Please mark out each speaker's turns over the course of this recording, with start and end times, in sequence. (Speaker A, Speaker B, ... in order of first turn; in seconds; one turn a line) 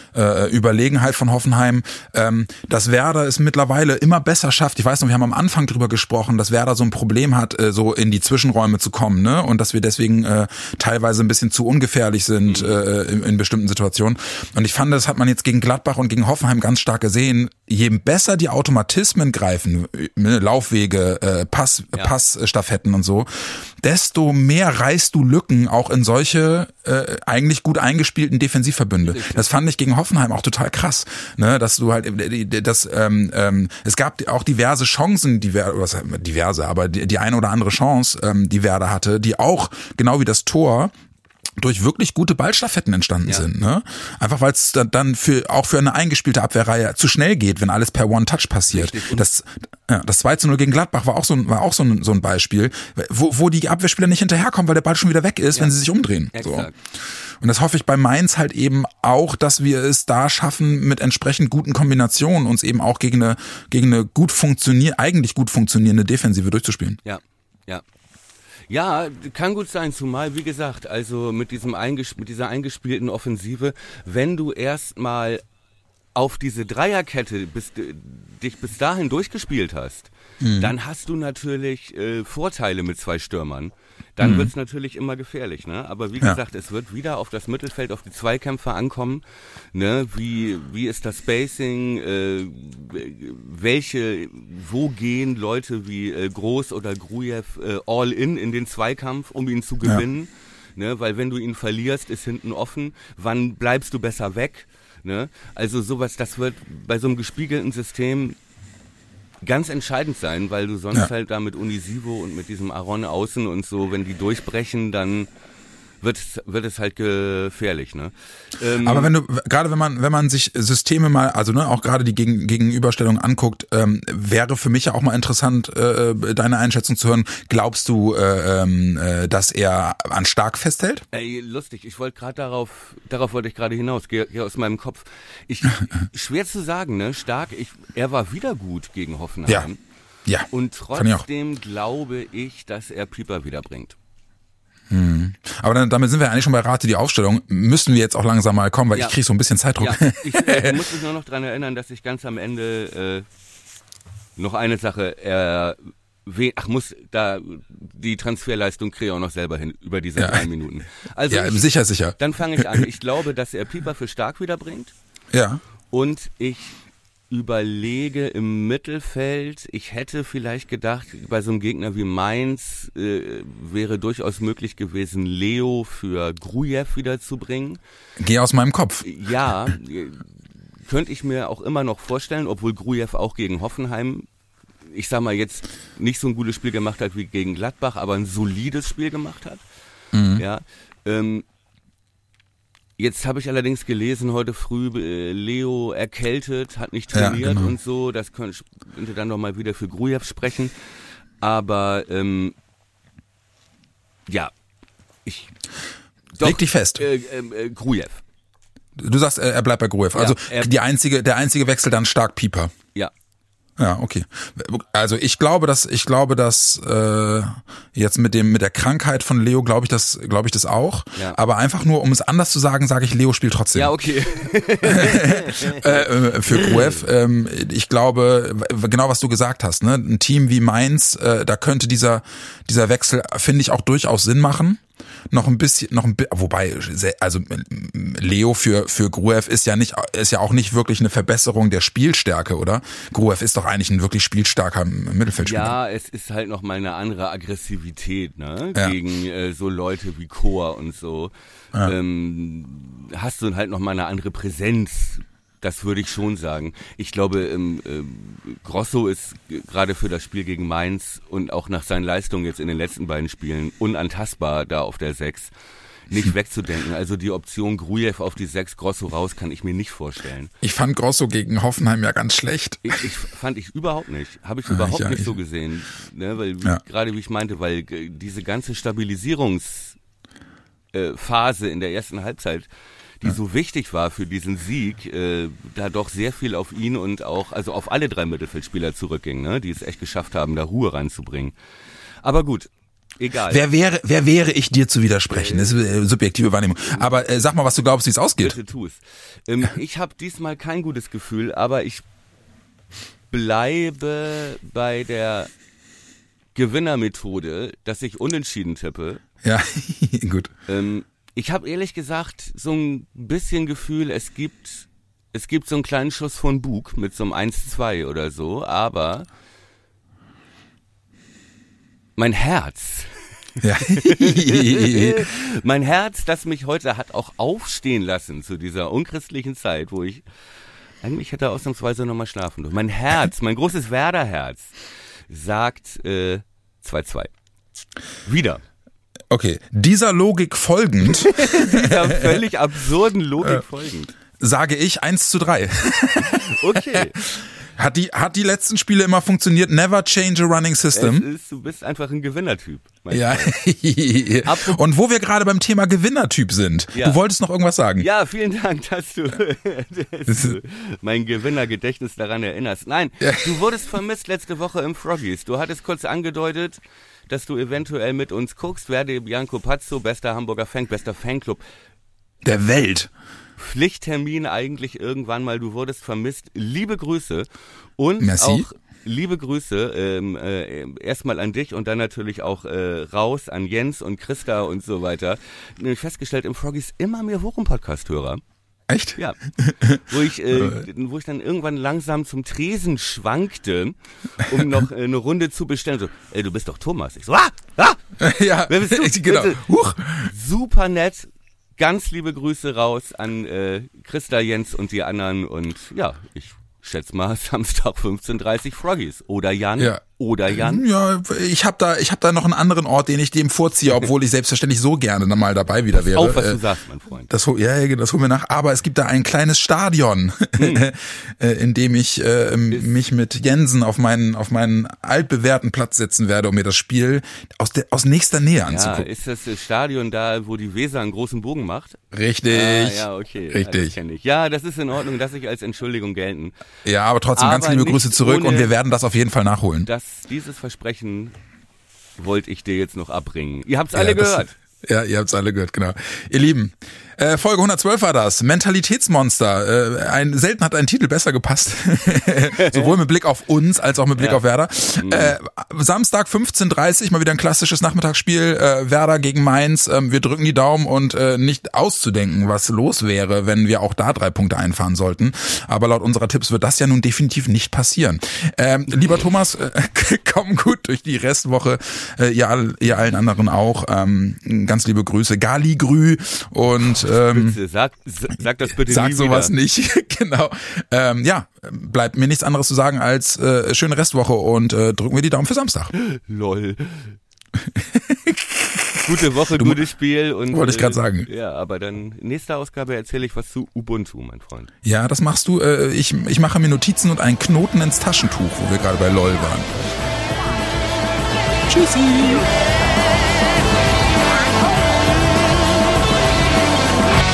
Speaker A: 0.1-40.9
Speaker B: 12.4-12.8
Speaker B: 29.0-29.4
Speaker A: 41.6-67.0
Speaker B: 48.7-49.3
Speaker B: 56.3-56.8
Speaker B: 67.0-67.8
Speaker B: 68.7-75.4
Speaker B: 76.2-89.2
Speaker A: 80.4-80.7
Speaker A: 84.2-84.5
Speaker B: 89.7-108.4
Speaker B: 109.4-115.3
Speaker B: 116.0-119.1
Speaker A: 118.8-131.1
Speaker B: 131.1-139.8
Speaker A: 140.3-141.3
Speaker B: 140.5-144.0
Speaker A: 144.9-150.9
Speaker B: 149.8-153.3
Speaker B: 154.4-164.9
Speaker A: 160.2-160.5
Speaker A: 161.3-162.9
Speaker A: 165.3-165.6
Speaker B: 165.9-177.8
Speaker A: 178.2-179.1
Speaker B: 179.0-180.3
Speaker B: 180.8-184.3
Speaker B: 184.9-189.6
Speaker A: 190.1-190.4
Speaker B: 190.3-191.4
Speaker B: 193.0-200.7
Speaker A: 197.1-197.7
Speaker B: 201.4-202.6
Speaker B: 205.3-205.5
Speaker B: 206.3-208.2
Speaker A: 206.4-207.0
Speaker A: 209.0-212.7
Speaker B: 210.1-210.7
Speaker A: 213.8-223.9
Speaker B: 223.7-227.1
Speaker A: 224.8-245.8
Speaker B: 245.4-265.5
Speaker B: 266.1-270.5
Speaker A: 270.6-273.1
Speaker B: 272.8-280.0
Speaker A: 274.7-275.3
Speaker B: 280.9-282.7
Speaker B: 283.2-291.5
Speaker B: 292.2-293.6
Speaker A: 293.5-298.6
Speaker B: 295.3-295.8
Speaker B: 298.4-302.0
Speaker B: 303.3-305.5
Speaker B: 306.6-309.2
Speaker A: 309.4-310.5
Speaker B: 310.7-319.3
Speaker B: 322.2-330.2
Speaker A: 323.6-325.3
Speaker B: 331.0-334.8
Speaker B: 335.3-337.3
Speaker B: 338.2-338.6
Speaker A: 339.3-342.5
Speaker B: 341.0-344.1
Speaker A: 344.4-351.3
Speaker B: 346.2-347.2
Speaker B: 350.9-353.6
Speaker A: 353.1-358.1
Speaker B: 354.4-354.8
Speaker B: 356.9-357.2
Speaker B: 358.0-371.6
Speaker A: 360.3-360.6
Speaker A: 363.2-363.6
Speaker A: 372.4-373.1
Speaker B: 373.6-388.4
Speaker A: 378.2-378.6
Speaker A: 388.9-390.9
Speaker B: 390.0-398.0
Speaker A: 398.2-400.3
Speaker B: 398.7-410.8
Speaker A: 409.8-416.6
Speaker B: 415.9-417.3
Speaker A: 417.3-429.1
Speaker B: 420.6-420.8
Speaker B: 428.6-432.0
Speaker A: 432.1-433.9
Speaker B: 432.5-436.6
Speaker A: 436.9-439.9
Speaker B: 437.4-438.7
Speaker B: 439.9-441.4
Speaker B: 442.2-444.6
Speaker A: 443.9-477.6
Speaker B: 452.6-452.9
Speaker B: 454.2-454.4
Speaker B: 455.0-455.4
Speaker B: 477.1-479.5
Speaker A: 478.7-485.9
Speaker B: 485.9-487.2
Speaker A: 487.6-489.8
Speaker B: 489.0-494.7
Speaker A: 490.5-491.3
Speaker A: 494.8-500.1
Speaker A: 501.7-502.5